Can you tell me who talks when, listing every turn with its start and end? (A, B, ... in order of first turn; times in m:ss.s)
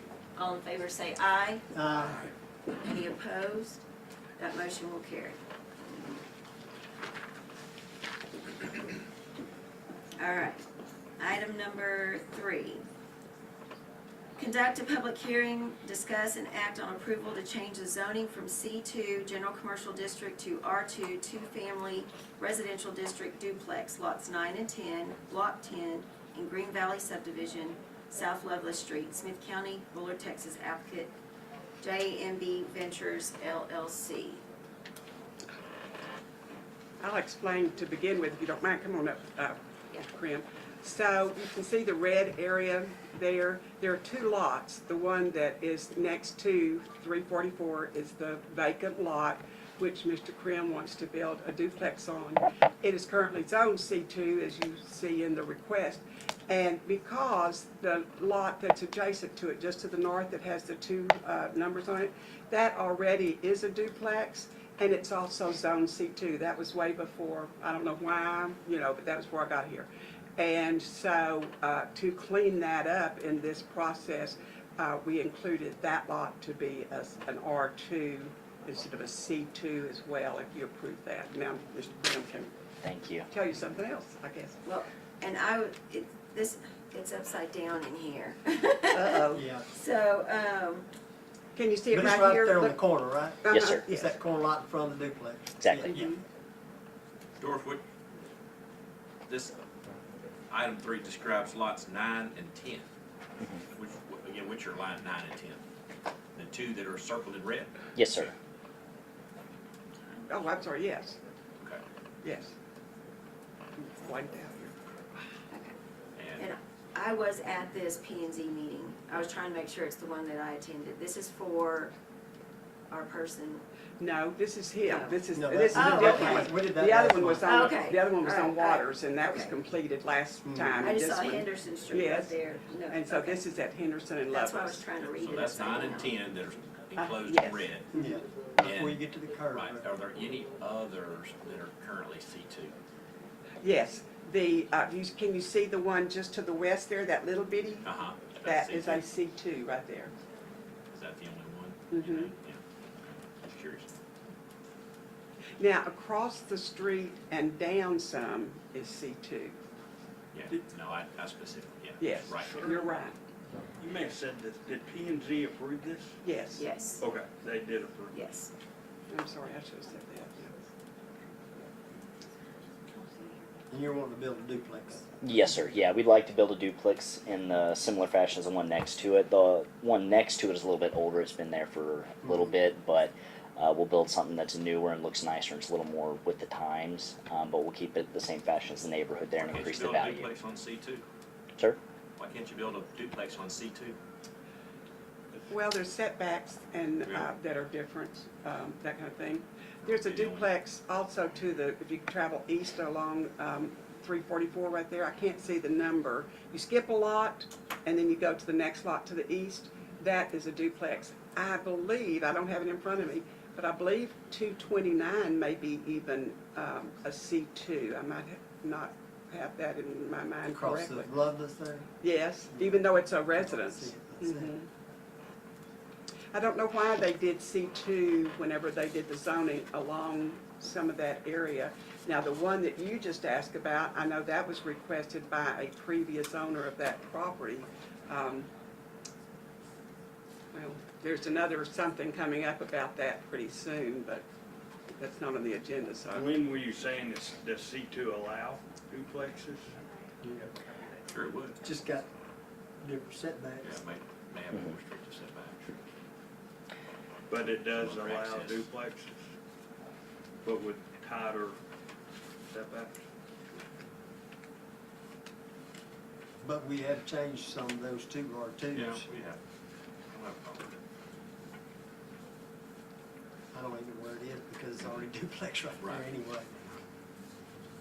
0:00.4-0:01.7 A
0:01.7-0:02.3 B
0:02.8-0:03.8 A
0:04.4-0:06.2 A
0:10.2-0:10.6 A
0:11.2-0:12.8 A
0:14.4-0:31.1 A
0:31.8-0:34.4 A
0:37.0-1:22.5 C
1:22.8-1:23.3 D
1:23.3-1:24.6 C
1:24.6-1:29.1 A
1:28.9-1:29.4 C
1:29.3-1:29.7 B
1:29.7-1:30.9 A
1:31.6-1:32.8 C
1:31.9-1:36.2 B
1:33.4-1:34.2 C
1:35.6-1:35.9 D
1:35.8-1:36.2 C
1:37.4-1:37.8 E
1:39.3-1:39.6 E
1:40.5-1:42.9 E
1:43.7-1:45.6 E
1:46.4-1:48.3 E
1:48.0-1:48.3 D
1:50.3-1:51.2 C
1:52.2-1:52.5 C
1:53.8-1:54.8 C
1:56.2-1:56.5 E
1:56.4-2:02.0 A
2:02.9-2:03.6 A
2:04.0-2:12.4 C
2:04.8-2:05.2 A
2:05.3-2:07.6 B
2:05.7-2:06.5 A
2:07.4-2:09.6 A
2:10.4-2:10.8 B
2:10.8-2:13.4 A
2:12.9-2:14.8 C
2:14.3-2:16.2 A
2:15.0-2:17.9 E
2:17.0-2:17.7 C
2:17.9-2:19.8 B
2:18.6-2:19.0 E
2:19.5-2:22.8 E
2:23.6-2:27.9 C
2:27.8-2:29.0 E
2:28.4-2:30.1 C
2:30.9-2:33.9 E
2:31.9-2:32.3 C
2:35.6-2:39.6 C
2:40.3-2:42.7 E
2:42.0-2:43.2 C
2:43.8-2:46.2 F
2:46.2-2:46.7 C
2:46.6-2:47.0 A
2:47.0-2:48.2 F
2:48.1-2:48.5 A
2:49.1-2:50.5 C
2:52.9-2:53.6 A
2:53.7-2:55.0 B
2:55.2-3:10.3 D
3:09.4-3:11.0 E
3:12.2-3:14.0 E
3:15.5-3:41.1 C
3:19.8-3:20.5 E
3:40.6-3:41.9 B
3:42.0-3:44.7 C
3:42.5-3:44.5 B
3:46.3-3:58.5 C
4:00.5-4:04.2 C
4:05.0-4:06.3 C
4:06.2-4:09.8 F
4:10.2-4:10.5 B
4:11.1-4:11.6 E
4:11.6-4:12.0 B
4:12.8-4:13.8 B
4:13.6-4:15.8 E
4:17.3-4:19.3 F
4:17.4-4:18.7 E
4:20.4-4:21.6 F
4:22.5-4:23.0 F
4:26.4-4:29.1 B
4:28.7-4:29.4 E
4:30.1-4:30.8 E
4:33.5-4:36.5 B
4:35.8-4:36.1 E